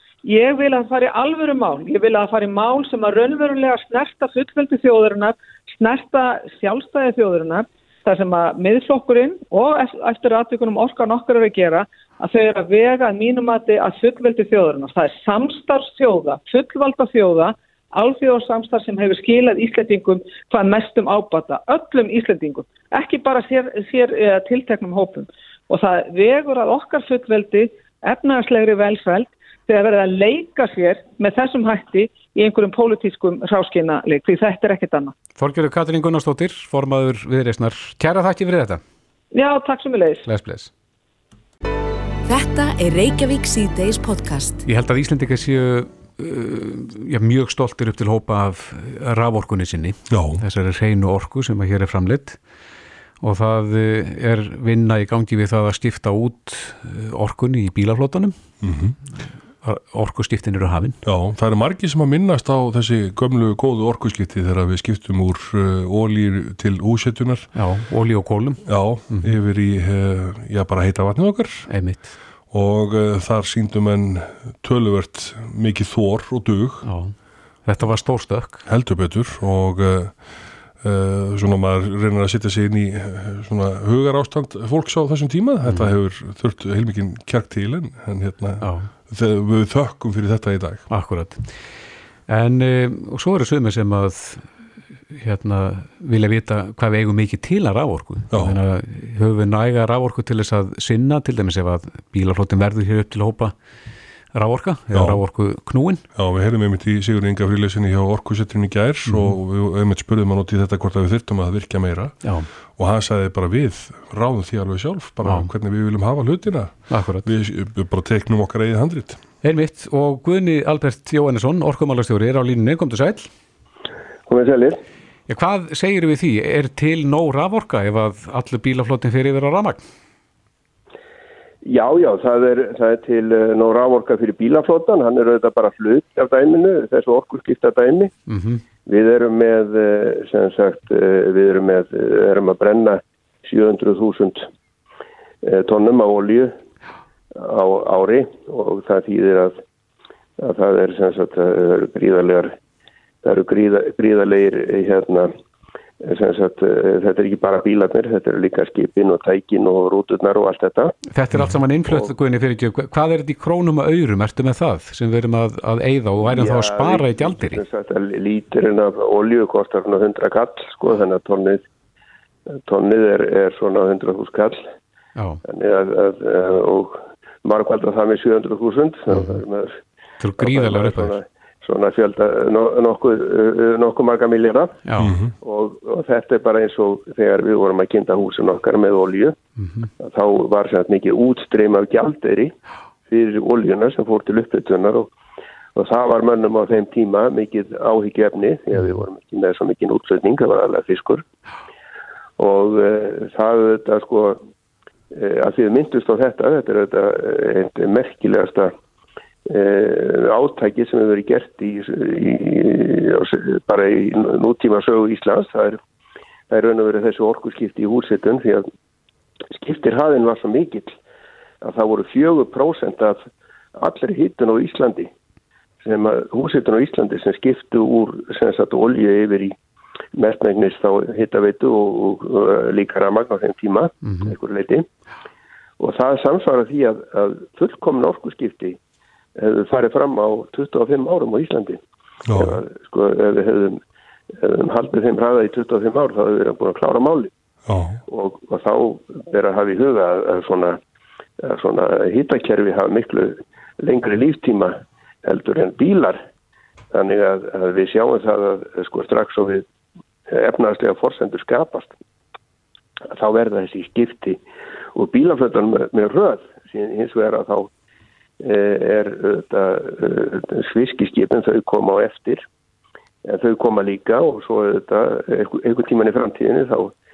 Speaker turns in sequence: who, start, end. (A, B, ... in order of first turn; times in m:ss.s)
0:00.2-0:35.1 A
0:35.4-0:38.8 B
0:39.3-0:40.2 A
0:40.2-0:40.7 B
0:42.3-0:44.6 C
0:44.6-0:52.4 B
0:50.1-0:50.4 D
0:53.2-0:58.4 B
0:58.6-0:59.0 D
0:59.6-1:01.0 B
1:01.0-1:07.5 D
1:07.5-1:09.3 B
1:08.7-1:11.7 D
1:11.7-1:12.1 B
1:12.5-1:16.9 D
1:16.8-1:17.1 B
1:17.7-1:18.6 B
1:18.7-1:30.9 D
1:25.7-1:25.9 B
1:28.6-1:28.9 B
1:30.9-1:31.5 B
1:32.3-1:34.5 B
1:35.1-1:43.5 B
1:38.3-1:38.6 D
1:44.3-1:46.0 B
1:44.9-1:45.2 D
1:46.2-1:59.2 D
1:49.1-1:49.4 B
1:52.2-1:52.5 B
1:56.9-1:57.3 B
1:59.4-2:03.3 B
2:04.3-2:04.8 E
2:05.3-2:09.8 B
2:11.6-2:18.1 E
2:18.3-2:18.6 B
2:18.9-2:24.5 E
2:25.4-2:26.6 E
2:27.4-2:29.6 E
2:30.4-2:32.6 E
2:33.2-2:35.3 E
2:36.0-2:41.0 E
2:41.1-2:47.6 B
2:46.3-2:51.6 E
2:52.5-2:54.7 E
2:55.2-2:55.4 B
2:55.4-2:59.8 E
3:00.2-3:01.2 B
3:00.4-3:04.8 E
3:04.8-3:05.1 B
3:05.0-3:05.3 D
3:05.4-3:09.4 E
3:09.6-3:09.9 B
3:10.0-3:12.5 E
3:13.1-3:15.1 E
3:15.8-3:21.2 E
3:22.4-3:24.4 E
3:25.1-3:28.7 E
3:29.5-3:35.8 E
3:36.5-3:38.7 E
3:39.5-3:41.0 E
3:41.6-3:45.1 E
3:45.8-3:49.6 E
3:50.1-3:54.9 E
3:54.1-3:54.3 B
3:55.8-3:58.8 E
3:59.4-4:01.8 E
4:02.3-4:02.6 D
4:02.4-4:03.8 E
4:04.4-4:07.3 E
4:07.7-4:08.0 D
4:08.1-4:10.8 E
4:11.4-4:16.2 E
4:16.9-4:19.6 E
4:20.3-4:21.9 E
4:23.1-4:24.4 E
4:24.9-4:27.7 E
4:28.4-4:32.5 E
4:33.2-4:36.9 E